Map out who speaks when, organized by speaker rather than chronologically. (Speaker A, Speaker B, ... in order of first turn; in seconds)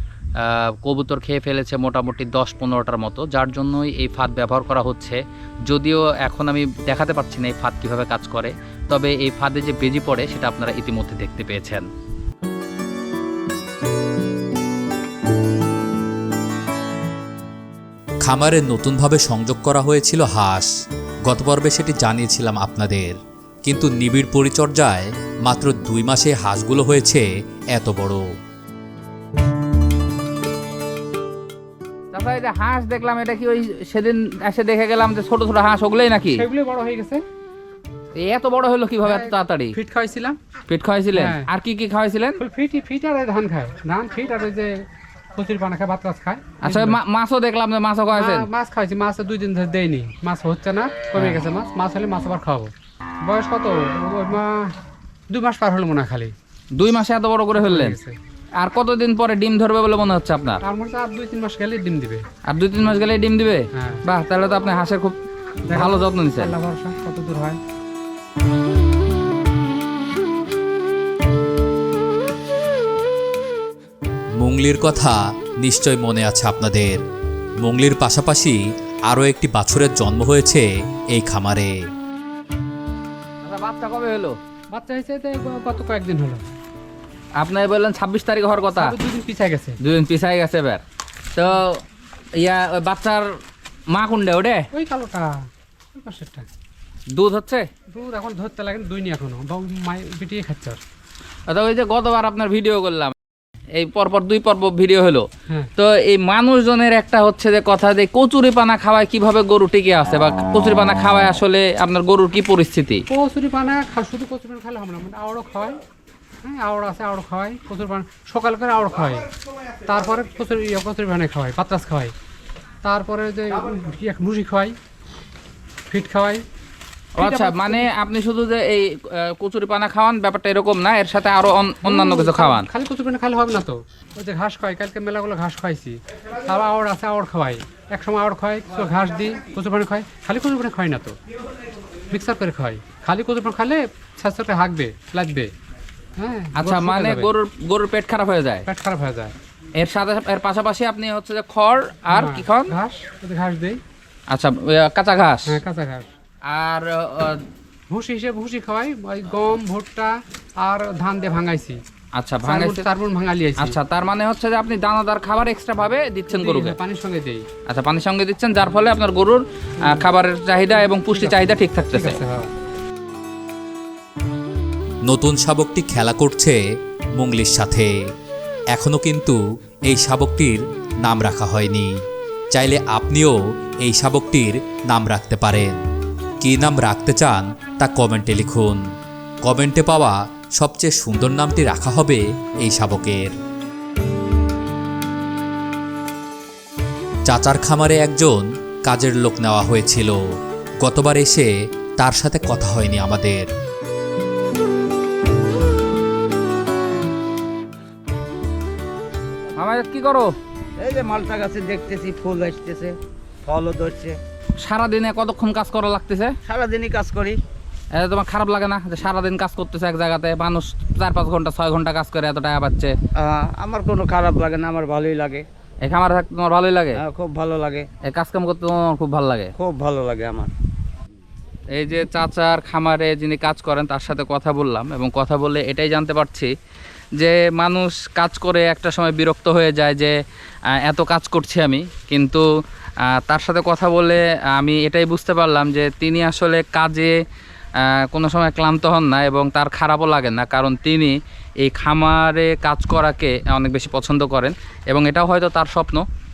Speaker A: 0.4-11.8, 32.1-36.4, 38.2-39.7, 40.7-42.4, 46.6-48.5, 56.7-58.0, 58.6-60.6, 62.5-65.1, 65.7-66.5, 83.4-84.4, 87.4-89.0, 89.8-90.8, 91.3-91.8, 92.4-93.3, 93.9-94.7, 97.1-97.7, 101.5-103.1, 103.7-105.2, 105.8-113.0, 127.2-132.7, 146.6-148.6, 149.8-152.7, 154.3-155.6, 156.4-157.4, 162.2-162.8, 163.6-166.8, 167.7-172.2, 209.6-210.3, 214.6-216.3, 217.9-222.9, 225.8-227.0, 228.1-229.5, 231.7-236.5, 237.2-240.2, 240.7-242.5, 243.0-247.2, 247.8-256.0
Speaker B: 18.2-20.7, 21.2-28.2, 74.4-77.0, 77.6-81.8, 175.0-176.6, 177.2-177.9, 178.7-181.9, 182.5-185.8, 186.4-188.8, 189.4-193.3, 197.2-200.2, 200.8-203.5
Speaker C: 36.3-37.2, 39.0-40.4, 41.1-41.5, 42.4-44.8, 45.4-47.0, 48.1-52.7, 53.2-54.7, 55.3-56.3, 57.6-58.1, 60.6-62.2, 63.7-64.0, 65.7-67.6, 84.7-86.5, 88.7-89.8, 94.7-96.5, 97.9-100.8, 113.1-115.8, 116.4-119.3, 119.8-122.1, 122.8-124.8, 125.9-126.4, 127.2-127.9, 131.8-141.2, 142.1-145.5, 146.2-147.3, 148.7-149.3, 152.1-153.8, 155.5-156.1, 157.9-161.8, 162.4-163.8, 166.3-167.4, 169.8-170.1, 170.7-172.5
Speaker D: 210.8-214.2, 216.4-217.4, 223.2-225.5, 226.9-227.9, 229.6-230.5